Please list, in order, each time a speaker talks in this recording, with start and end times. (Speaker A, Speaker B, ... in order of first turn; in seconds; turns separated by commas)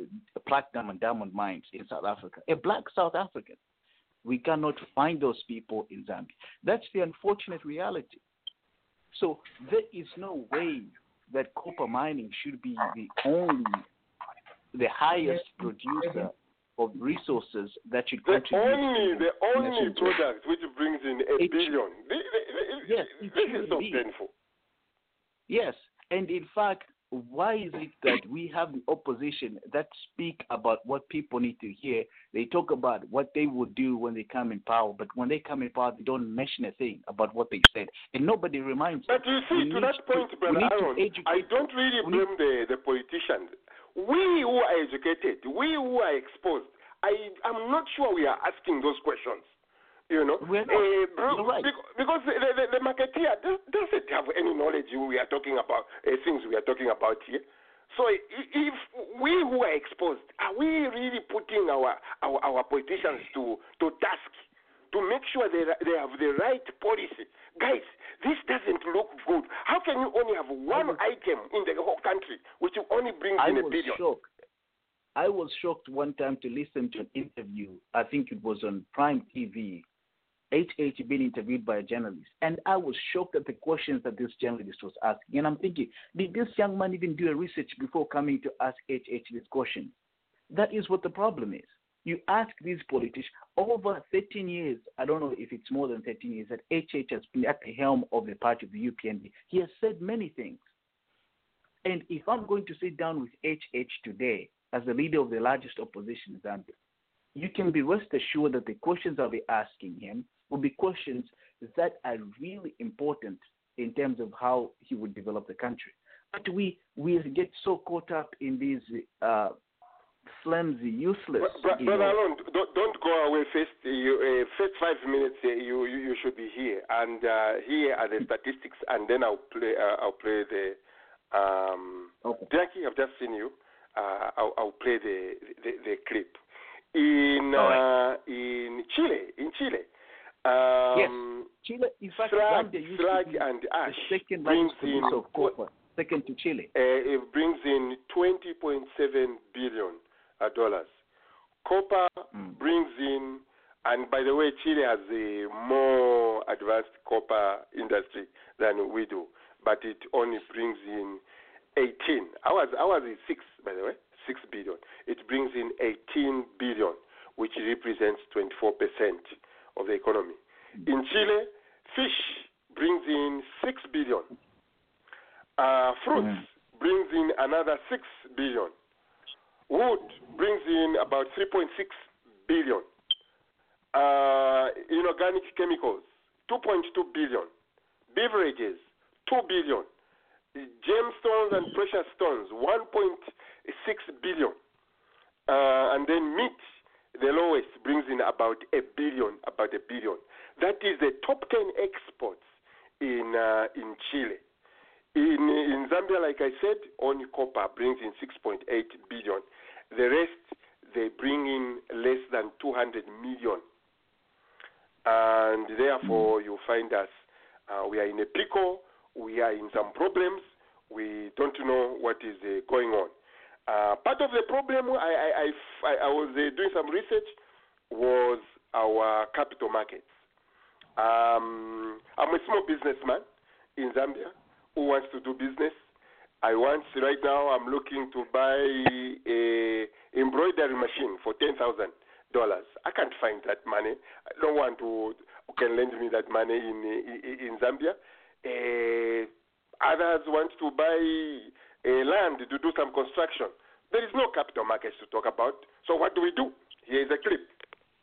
Speaker A: 0.4-3.6, Speaker A: 4.2-8.2, Speaker A: 9.1-13.9, Speaker A: 14.7-20.2, Speaker B: 18.3-24.3, Speaker A: 21.4-21.7, Speaker A: 22.8-24.1, Speaker A: 25.5-42.3, Speaker B: 39.1-49.5, Speaker B: 50.1-74.0, Speaker A: 50.4-51.7, Speaker A: 70.7-71.0, Speaker A: 73.4-74.3, Speaker A: 75.2-79.8, Speaker A: 80.5-90.0, Speaker A: 90.5-100.6, Speaker A: 101.8-106.7, Speaker A: 107.3-119.5, Speaker A: 120.3-122.2, Speaker B: 121.4-130.8, Speaker B: 131.3-136.4, Speaker B: 136.9-139.9, Speaker A: 137.6-137.8, Speaker B: 140.4-141.4, Speaker A: 140.9-146.7, Speaker B: 142.2-145.5, Speaker B: 146.7-150.9, Speaker B: 151.6-161.2, Speaker B: 161.8-174.3, Speaker B: 175.6-178.7, Speaker B: 179.7-181.9, Speaker B: 182.5-182.9, Speaker B: 183.9-187.5, Speaker B: 188.1-189.9, Speaker B: 190.6-194.6, Speaker B: 195.5-196.6, Speaker B: 197.1-202.4, Speaker B: 203.0-204.4, Speaker B: 205.1-213.6, Speaker B: 215.1-217.1, Speaker B: 217.7-223.1, Speaker B: 223.7-227.3, Speaker B: 227.9-230.1, Speaker B: 231.0-233.2, Speaker B: 233.8-235.7, Speaker B: 236.4-249.3, Speaker B: 249.8-257.5